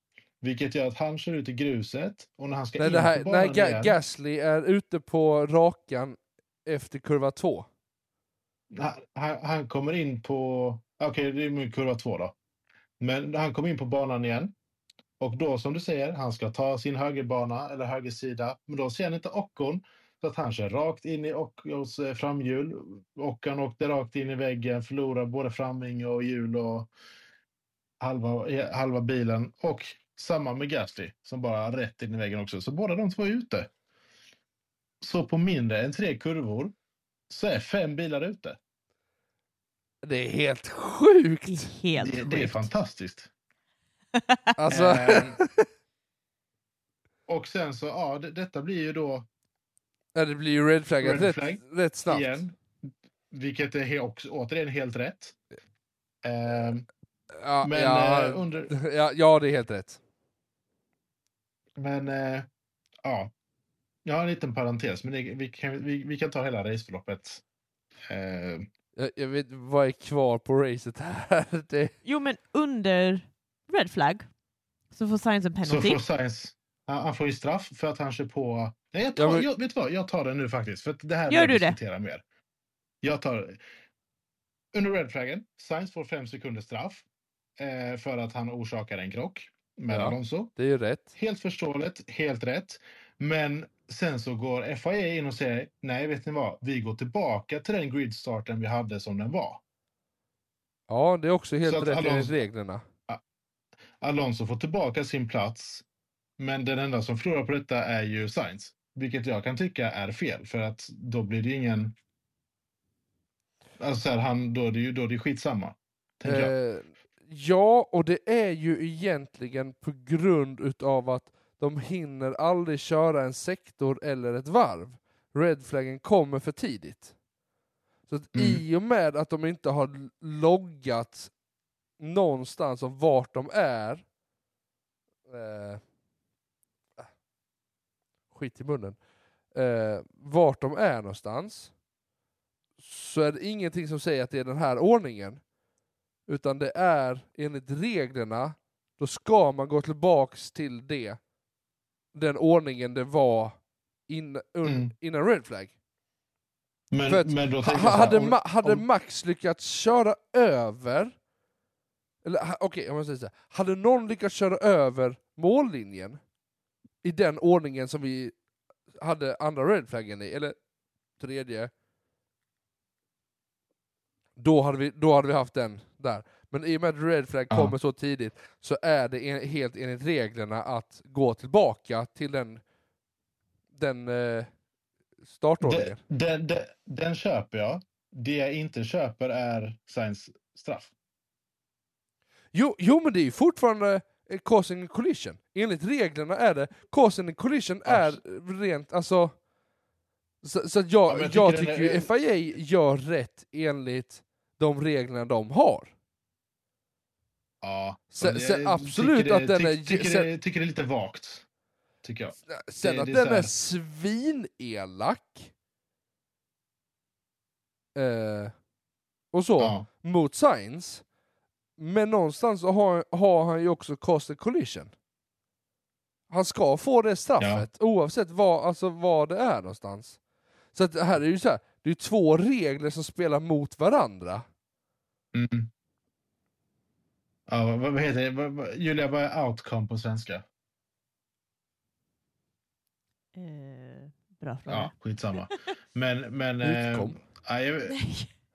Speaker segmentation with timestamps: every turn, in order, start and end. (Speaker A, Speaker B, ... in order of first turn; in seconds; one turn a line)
Speaker A: 0.4-4.0
Speaker B: 2.8-7.7
Speaker A: 8.7-12.3
Speaker A: 13.0-14.5
Speaker A: 15.2-26.9
Speaker A: 28.0-33.7
Speaker A: 35.0-36.7
Speaker A: 37.3-38.6
Speaker B: 40.0-41.7
Speaker C: 41.5-42.7
Speaker A: 42.0-43.3
Speaker C: 44.2-44.5
Speaker B: 44.6-45.6
Speaker A: 44.7-45.4
Speaker A: 47.3-49.3
Speaker B: 50.1-52.4
Speaker A: 51.0-52.6
Speaker A: 53.3-55.4
Speaker A: 56.2-56.9
Speaker B: 57.3-60.0
Speaker A: 57.6-58.7
Speaker A: 61.8-62.5
Speaker A: 63.0-63.3
Speaker A: 64.0-67.4
Speaker A: 68.1-68.7
Speaker B: 69.0-71.9
Speaker C: 72.0-74.3
Speaker C: 74.9-76.0
Speaker A: 75.6-82.2
Speaker B: 79.2-79.5
Speaker C: 81.3-81.8
Speaker A: 83.0-83.6
Speaker A: 84.7-87.0
Speaker A: 87.6-90.5
Speaker B: 89.9-91.1
Speaker A: 91.2-99.6
Speaker B: 100.9-102.8
Speaker A: 101.6-102.3
Speaker A: 104.0-105.8
Speaker A: 106.4-112.0
Speaker A: 113.8-116.5
Speaker B: 116.2-127.1
Speaker B: 128.1-131.3
Speaker A: 128.3-128.6
Speaker B: 132.0-134.0
Speaker B: 135.3-135.8
Speaker B: 138.3-139.0
Speaker B: 139.5-141.7
Speaker B: 142.8-145.4
Speaker B: 146.3-151.2
Speaker B: 152.1-153.6
Speaker B: 154.1-155.7
Speaker A: 154.6-154.9
Speaker A: 156.9-158.8
Speaker B: 157.1-161.2
Speaker B: 162.2-166.2
Speaker B: 167.0-168.3
Speaker B: 169.0-170.6
Speaker B: 171.2-171.7
Speaker B: 174.4-182.6
Speaker A: 177.5-177.8
Speaker B: 183.7-184.5
Speaker B: 185.3-186.0
Speaker A: 185.6-190.9
Speaker B: 192.5-199.3
Speaker A: 197.9-198.2
Speaker B: 200.4-205.9
Speaker A: 201.1-202.1
Speaker A: 207.6-211.5
Speaker B: 208.1-210.3
Speaker A: 212.0-213.5
Speaker B: 212.5-215.5
Speaker B: 217.9-218.5
Speaker B: 219.3-221.0
Speaker A: 219.6-219.9
Speaker B: 221.8-224.9
Speaker B: 226.3-230.2
Speaker A: 227.4-227.7
Speaker B: 230.7-234.4
Speaker A: 235.3-235.7
Speaker A: 237.5-240.4
Speaker C: 243.3-245.7
Speaker A: 244.7-248.0
Speaker B: 246.6-247.2
Speaker C: 247.9-248.3